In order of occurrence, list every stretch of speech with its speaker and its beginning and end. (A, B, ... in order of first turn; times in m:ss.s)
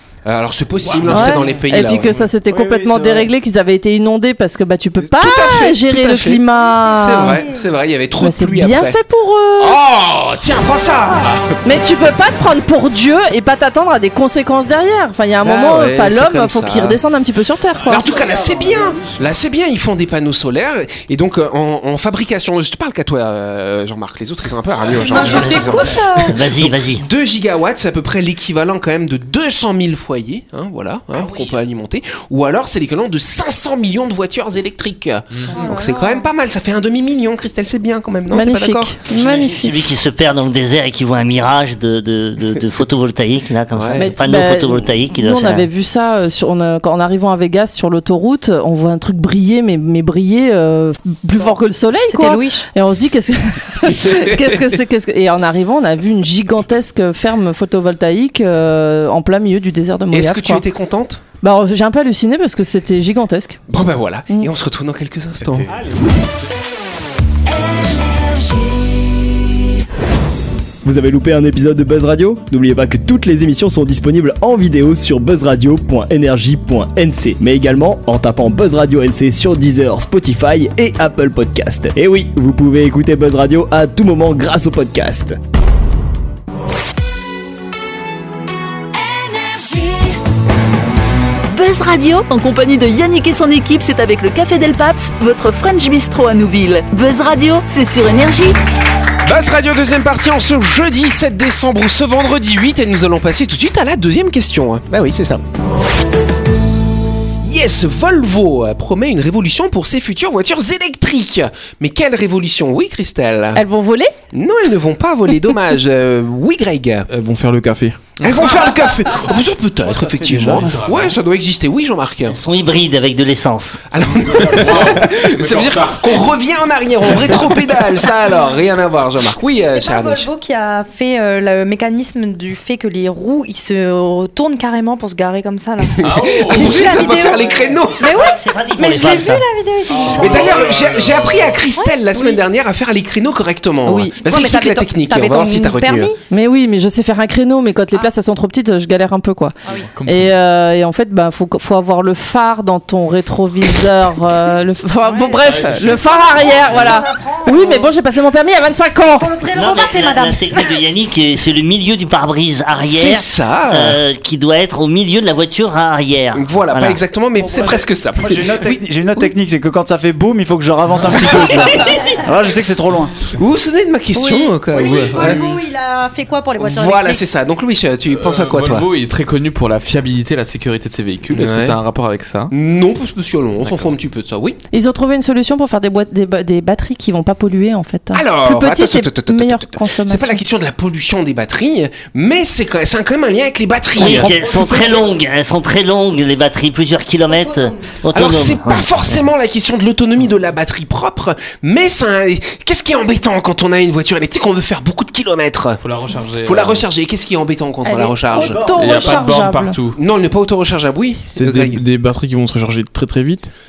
0:00.2-0:02.3 A
0:00.8-0:01.4 B
0:01.1-0:07.4 C
0:02.5-0:03.3 D
0:05.0-0:09.0 A
0:06.6-0:07.6 E
0:08.2-0:09.8 C
0:09.6-0:11.4 A
0:11.6-0:18.1 C
0:15.4-0:17.0 A
0:17.8-0:38.9 A
0:17.9-0:19.2 D
0:24.9-0:26.4 E
0:25.2-0:27.0 F
0:35.3-0:35.6 B
0:35.5-0:36.3 E
0:38.3-0:39.8 C
0:39.1-0:45.7 F
0:43.8-0:44.1 A
0:44.0-1:00.6 C
0:52.1-0:52.7 E
0:53.9-0:54.4 A
1:00.1-1:01.2 A
1:01.4-1:03.6 C
1:03.7-1:05.7 A
1:05.4-1:05.7 B
1:05.7-1:06.1 D
1:10.8-1:25.4 G
1:31.5-1:38.6 H
1:39.2-1:45.4 A
1:47.4-1:53.6 A
1:53.6-1:54.1 C
1:54.3-1:57.1 A
1:57.1-1:58.2 I
1:58.2-2:02.4 A
1:59.8-2:00.8 D
2:00.4-2:01.2 B
2:02.3-2:03.8 F
2:03.9-2:10.3 A
2:04.4-2:06.3 B
2:09.6-2:20.8 E
2:16.0-2:17.1 B
2:16.0-2:18.1 A
2:18.0-2:19.5 F
2:20.0-2:21.6 B
2:20.1-2:26.1 A
2:21.7-2:22.4 E
2:23.9-2:24.2 C
2:24.2-2:26.2 E
2:26.3-2:29.6 C
2:29.6-2:29.9 E
2:29.9-2:30.3 B
2:30.1-2:39.3 C
2:35.0-2:38.0 E
2:35.4-2:36.8 B
2:39.1-2:40.8 E
2:39.5-2:47.0 F
2:42.8-2:44.0 A
2:46.4-2:49.3 A
2:47.4-2:53.2 D
2:51.3-2:51.9 A
2:53.3-2:55.4 A
2:54.2-2:57.2 E
2:55.2-2:55.6 B
2:56.6-2:58.9 A
2:58.1-3:02.5 B
3:01.3-3:01.8 A
3:02.5-3:04.6 A
3:03.6-3:03.9 B
3:04.7-3:10.4 C
3:08.1-3:14.4 A
3:14.0-3:19.3 F
3:14.0-3:15.0 D
3:17.2-3:18.0 E
3:18.1-3:25.8 A
3:25.8-3:26.9 B
3:26.4-3:28.6 A
3:27.8-3:29.8 C
3:28.3-3:29.1 D
3:28.7-3:30.0 B
3:30.0-3:31.8 A
3:31.3-3:33.5 I